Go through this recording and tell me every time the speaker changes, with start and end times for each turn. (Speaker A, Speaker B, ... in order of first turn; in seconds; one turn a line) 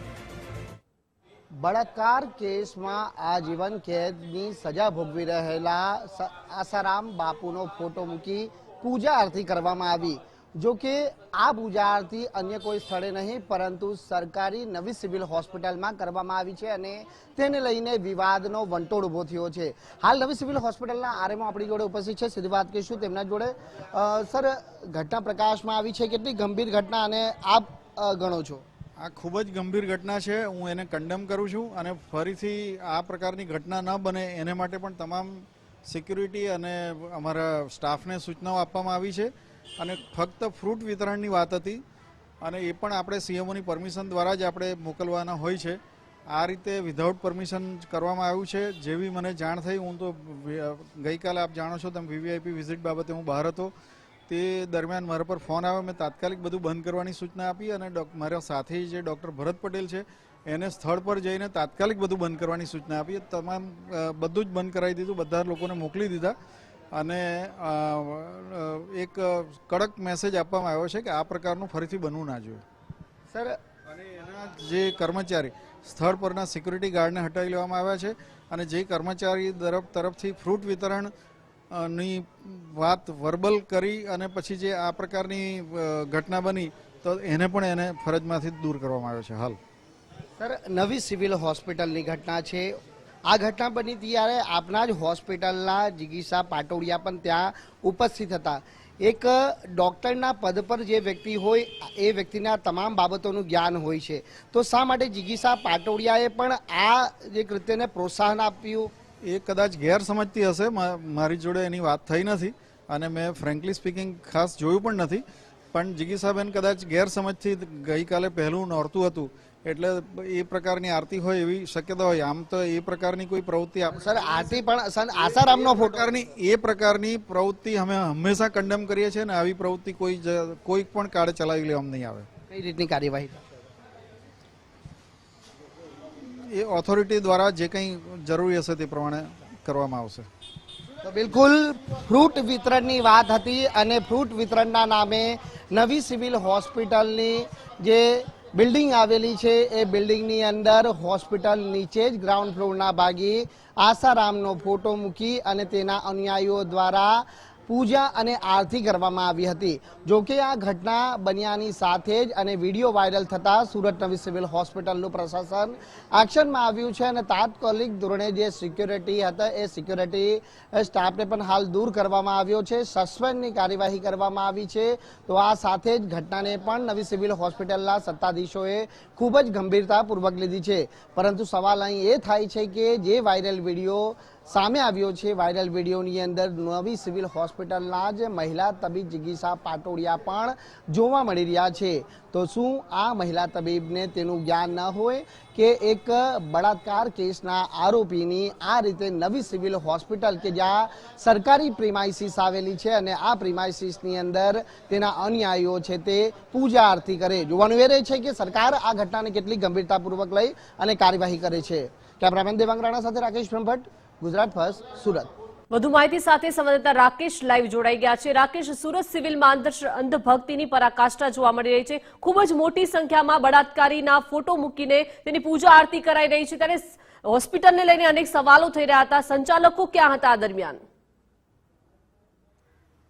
Speaker A: 1.6-28.6
Speaker B: 29.0-41.8
Speaker B: 42.4-45.8
Speaker B: 46.3-53.7
Speaker B: 54.3-66.3
Speaker B: 66.9-72.6
Speaker A: 73.3-73.6
Speaker B: 73.9-81.1
Speaker B: 81.7-89.6
Speaker A: 90.4-92.7
Speaker A: 93.3-108.9
Speaker B: 109.3-124.6
Speaker A: 123.9-126.0
Speaker B: 125.3-132.3
Speaker A: 132.5-133.4
Speaker B: 136.2-140.3
Speaker A: 141.0-215.3
Speaker C: 215.7-230.8